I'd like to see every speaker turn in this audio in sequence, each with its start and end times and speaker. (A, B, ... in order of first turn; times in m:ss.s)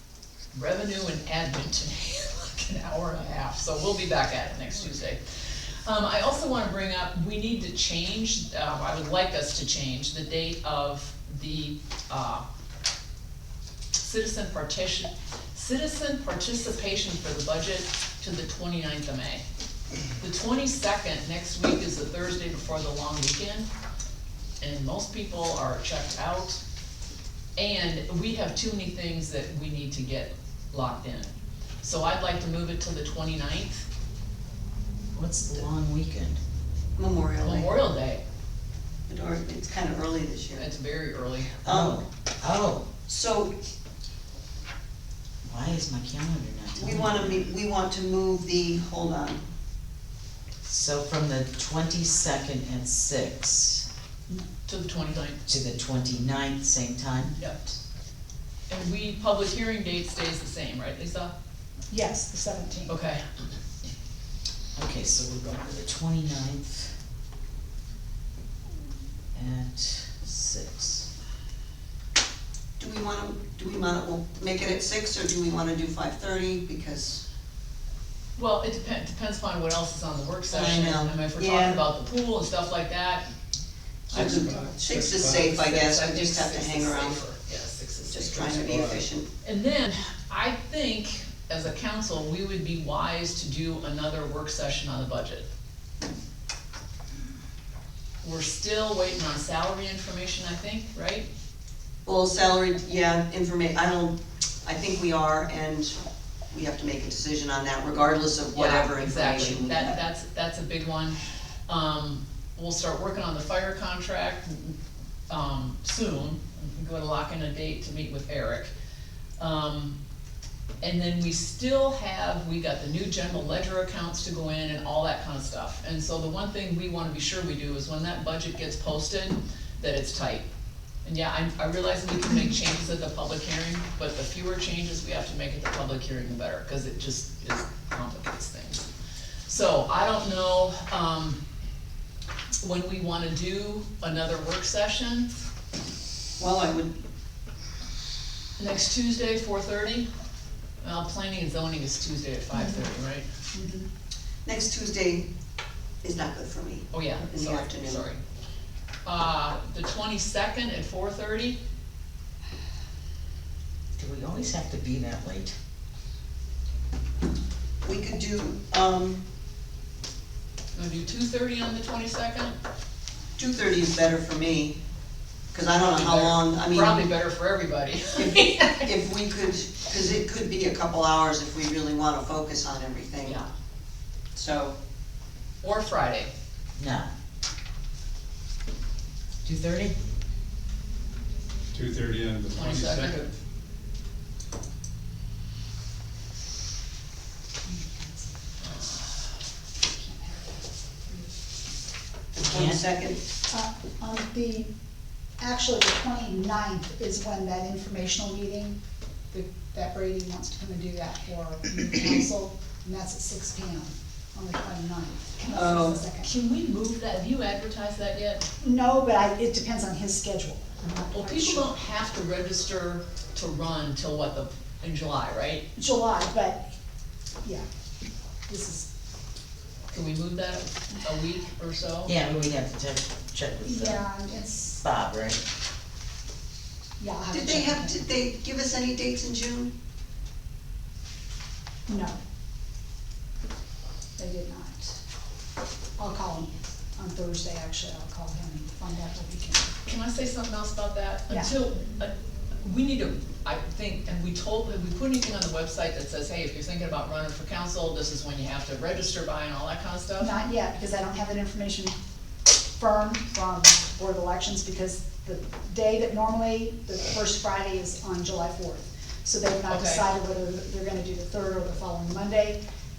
0:00.5-0:05.2 A
0:05.8-0:12.4 A
0:14.0-0:19.4 A
0:20.2-0:23.6 A
0:24.6-0:26.6 A
0:27.6-0:33.8 A
0:35.1-0:36.4 B
0:37.0-0:37.7 C
0:37.4-0:38.2 A
0:39.1-0:40.7 C
0:40.6-0:41.6 A
0:41.6-0:42.0 C
0:41.6-0:42.9 B
0:43.1-0:43.5 C
0:45.4-0:47.5 B
0:46.8-0:49.4 C
0:50.6-0:53.8 B
0:54.7-0:55.4 A
0:55.4-0:57.3 B
0:57.4-0:57.7 A
0:58.7-1:01.3 A
1:01.9-1:02.9 D
1:02.9-1:03.2 A
1:04.8-1:07.0 B
1:09.3-1:11.1 B
1:12.8-1:17.2 C
1:18.4-1:23.2 A
1:20.5-1:21.8 C
1:24.1-1:25.6 E
1:24.1-1:27.2 C
1:25.4-1:28.6 A
1:28.1-1:29.3 C
1:28.3-1:29.1 E
1:29.4-1:35.4 A
1:38.2-1:41.3 A
1:42.0-1:46.0 C
1:46.5-1:49.9 C
1:48.5-1:54.8 A
1:55.3-1:58.7 A
1:59.4-2:00.0 A
2:00.8-2:10.4 A
2:11.0-2:18.9 A
2:19.5-2:21.4 A
2:22.6-2:25.3 A
2:26.4-2:26.9 C
2:28.6-2:30.1 A
2:30.8-2:33.2 A
2:32.5-2:32.9 D
2:33.5-2:33.9 D
2:34.4-2:35.3 C
2:36.0-2:38.1 C
2:36.9-2:38.2 A
2:39.0-2:41.6 A
2:44.0-2:45.5 B
2:47.8-2:49.2 C
2:50.7-2:52.5 A
2:53.4-2:54.8 C
2:55.5-2:57.1 C
2:55.9-2:58.9 A
2:58.1-3:03.4 C
3:04.3-3:04.7 C
3:05.6-3:06.3 A
3:06.8-3:07.1 B
3:09.4-3:09.9 B
3:11.7-3:13.3 E
3:12.5-3:13.3 A
3:17.6-3:18.7 D
3:19.9-3:21.3 D
3:22.4-3:23.2 C
3:22.5-3:22.8 B
3:23.5-3:24.7 D
3:25.4-3:28.8 D
3:29.3-3:36.3 D
3:35.5-3:36.1 C
3:36.1-3:38.4 A
3:38.6-3:41.7 D
3:41.1-3:45.6 A
3:45.8-3:46.7 D
3:48.5-3:48.9 D
3:49.9-3:52.1 A
3:52.0-3:54.0 B
3:53.6-3:54.8 D
3:54.7-3:55.4 B
3:57.0-3:58.1 D
3:57.3-3:59.7 C
4:01.9-4:02.2 D
4:04.2-4:05.0 D
4:06.0-4:09.7 D
4:09.8-4:12.1 A
4:12.6-4:20.3 A
4:20.2-4:21.9 D
4:22.8-4:32.6 D
4:29.7-4:30.0 A